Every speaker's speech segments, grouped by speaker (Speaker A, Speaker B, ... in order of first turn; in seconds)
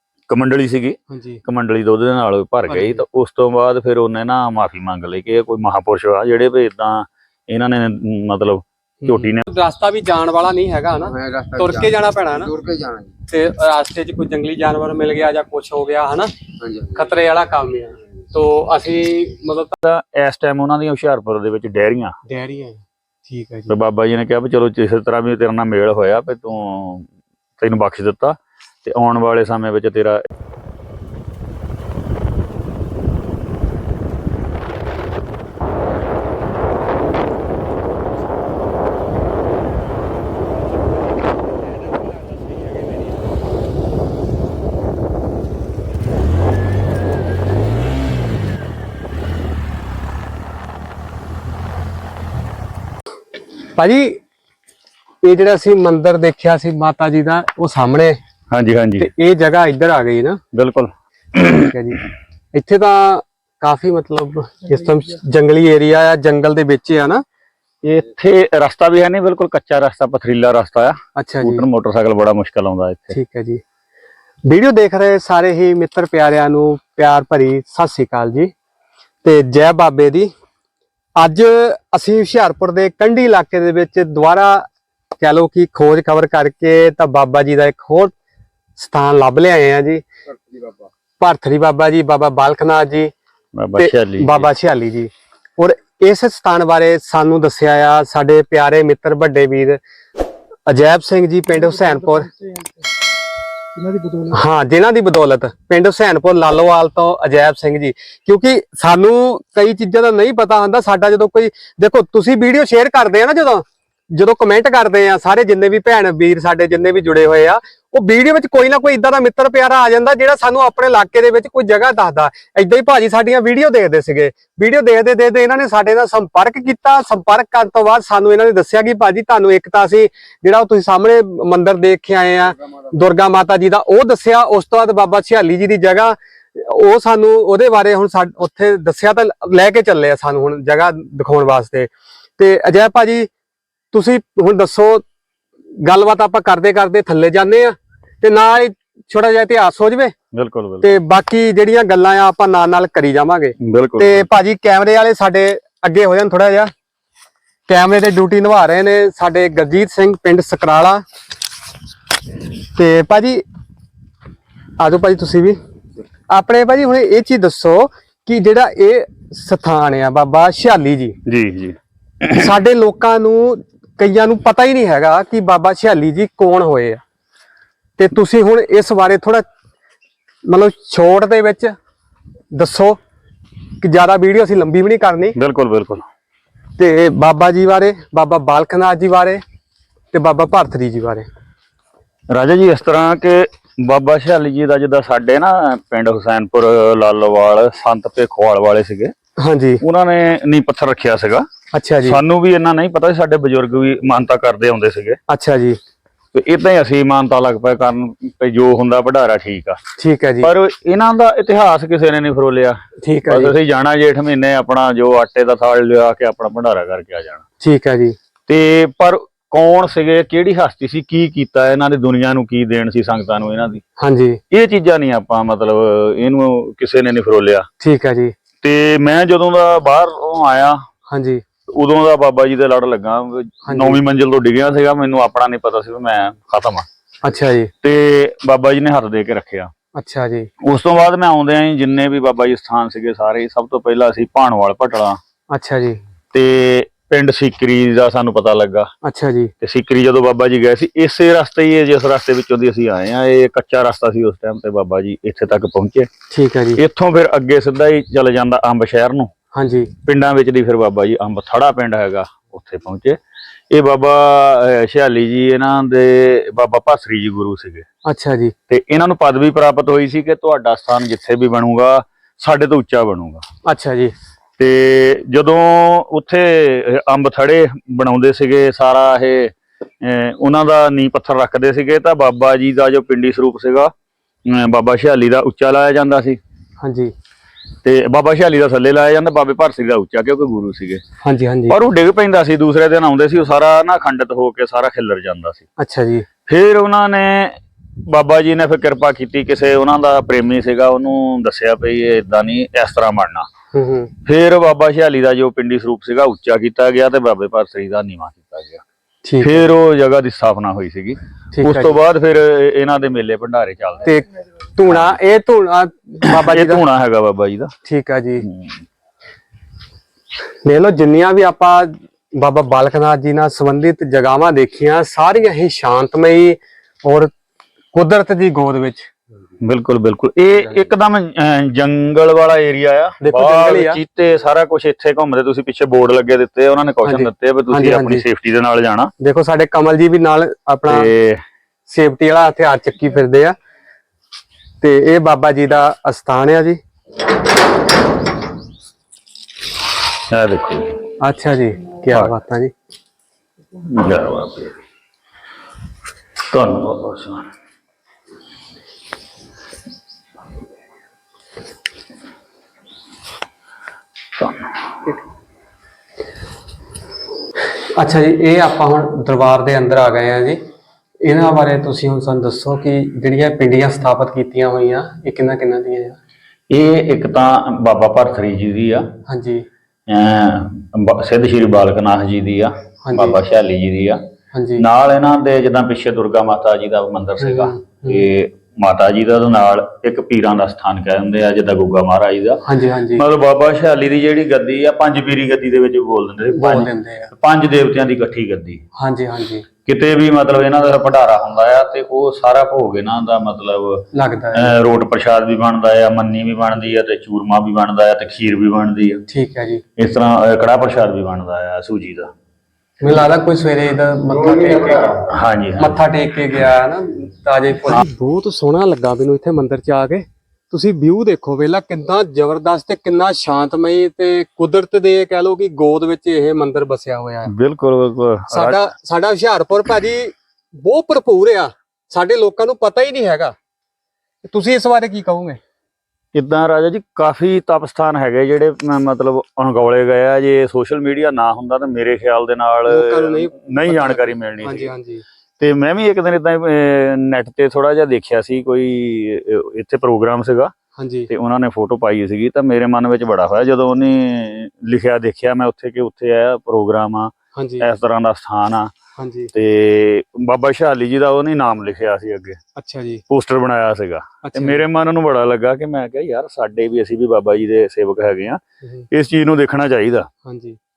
Speaker A: 0.3-9.4, 19.8-22.1, 23.7-27.1, 27.6-30.2, 58.5-59.1, 60.5-61.7, 67.8-73.2, 93.5-94.5, 150.3-151.0, 153.6-154.3, 171.2-172.4, 185.3-186.0, 192.3-199.1, 199.8-201.5, 202.0-205.2, 206.3-209.8, 210.4-217.4, 218.5-223.8, 224.5-227.7, 228.6-230.8, 231.7-236.8, 237.8-239.7, 240.6-245.2, 246.3-248.9, 249.6-256.1, 256.8-259.3, 260.0-263.2, 263.7-267.9, 268.7-273.4, 274.6-283.9, 284.5-286.4, 287.8-291.0, 291.7-295.6, 296.5-303.5, 304.2-308.8, 309.4-314.1, 314.9-315.2, 316.2-317.7, 318.5-318.8, 329.6-339.1, 340.9-341.4, 350.3-350.9, 353.9-354.8, 356.5-357.5, 376.7-379.1, 380.1-384.2, 384.8-392.6, 393.1-398.8, 399.8-409.2, 410.0-412.3, 415.3-415.9, 427.5-428.8, 436.3-444.9, 445.6-450.7, 451.3-458.9, 459.5-462.6, 463.3-470.3
Speaker B: 1.1-1.4, 2.7-3.0, 9.0-12.5, 13.3-16.3, 16.9-19.8, 22.3-23.7, 53.8-54.2, 55.2-58.2, 59.0-60.4, 61.5-62.0, 62.5-67.2, 71.2-71.7, 73.1-73.6, 74.5-78.5, 79.2-80.3, 81.2-84.7, 85.2-88.1, 88.8-90.0, 91.2-93.1, 93.8-99.8, 100.7-102.3, 104.3-143.3, 143.9-145.0, 145.8-150.1, 150.8-156.7, 157.7-161.0, 162.7-163.4, 164.8-165.6, 166.3-171.2, 172.3-177.0, 178.0-179.4, 180.5-181.7, 182.5-183.0, 183.8-185.3, 186.8-189.4, 190.1-191.3, 199.4-199.8, 201.7-202.2, 205.3-205.8, 210.0-210.5, 213.0-213.5, 217.6-218.2, 224.0-224.4, 227.8-228.3, 231.1-231.4, 233.7-234.0, 237.2-237.7, 239.9-240.5, 245.5-246.0, 249.0-249.5, 256.3-256.8, 259.5-259.9, 268.1-268.5, 273.6-274.1, 286.8-287.1, 291.2-291.8, 295.8-296.3, 303.7-304.1, 309.2-309.7, 311.5-311.9, 314.0-316.8, 317.9-318.4, 320.6-327.3, 327.9-329.1, 333.2-334.0, 337.0-338.2, 339.2-341.1, 341.9-343.6, 344.8-346.8, 351.2-352.7, 368.0-370.6, 371.2-376.2, 379.3-379.6, 383.1-383.4, 384.5-384.8, 387.4-388.3, 392.6-393.2, 396.5-397.3, 398.9-399.6, 404.1-404.8, 409.3-409.8, 413.0-415.2, 415.8-427.5, 428.5-433.5, 434.5-435.6, 442.9-445.2, 451.0-451.3, 457.5-457.9, 459.2-459.5, 462.8-463.2, 464.4-464.8, 470.4-470.8
Speaker C: 11.0-13.1, 16.6-17.1, 90.3-90.9, 414.3-415.2